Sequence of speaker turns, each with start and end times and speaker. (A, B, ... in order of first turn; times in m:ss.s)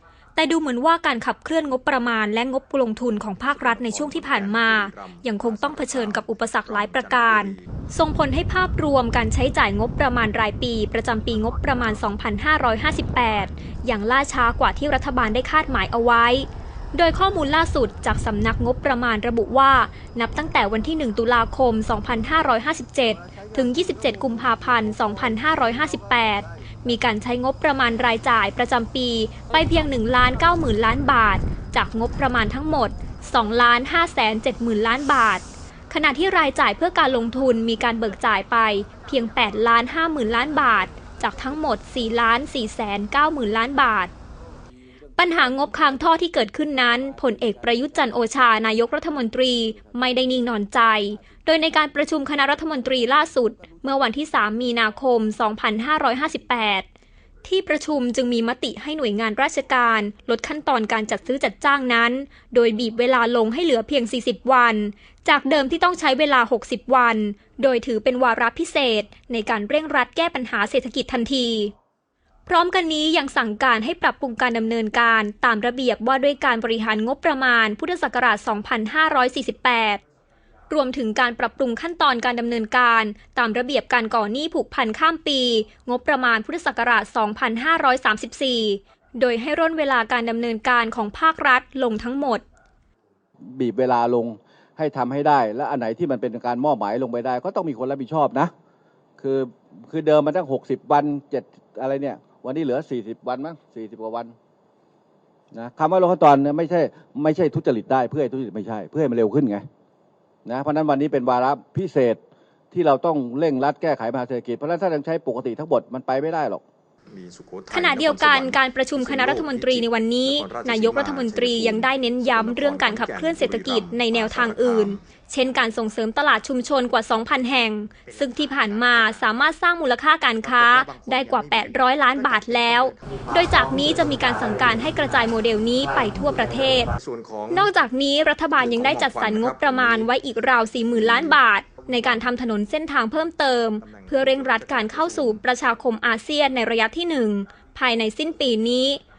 0:00.4-0:44.1 A
0:03.4-0:07.8 B
0:45.2-0:56.8 A
0:57.4-1:11.7 A
1:12.5-1:20.0 A
1:20.7-1:32.4 A
1:33.5-1:38.5 C
1:39.2-1:44.3 C
1:45.5-1:49.6 C
1:50.4-1:56.6 C
1:57.1-2:05.1 B
1:57.7-2:16.9 A
2:08.0-2:09.3 B
2:10.4-2:13.0 B
2:13.8-2:14.2 B
2:17.0-2:17.6 B
2:17.5-2:29.0 A
2:18.6-2:20.1 B
2:21.0-2:21.4 B
2:23.8-2:25.5 B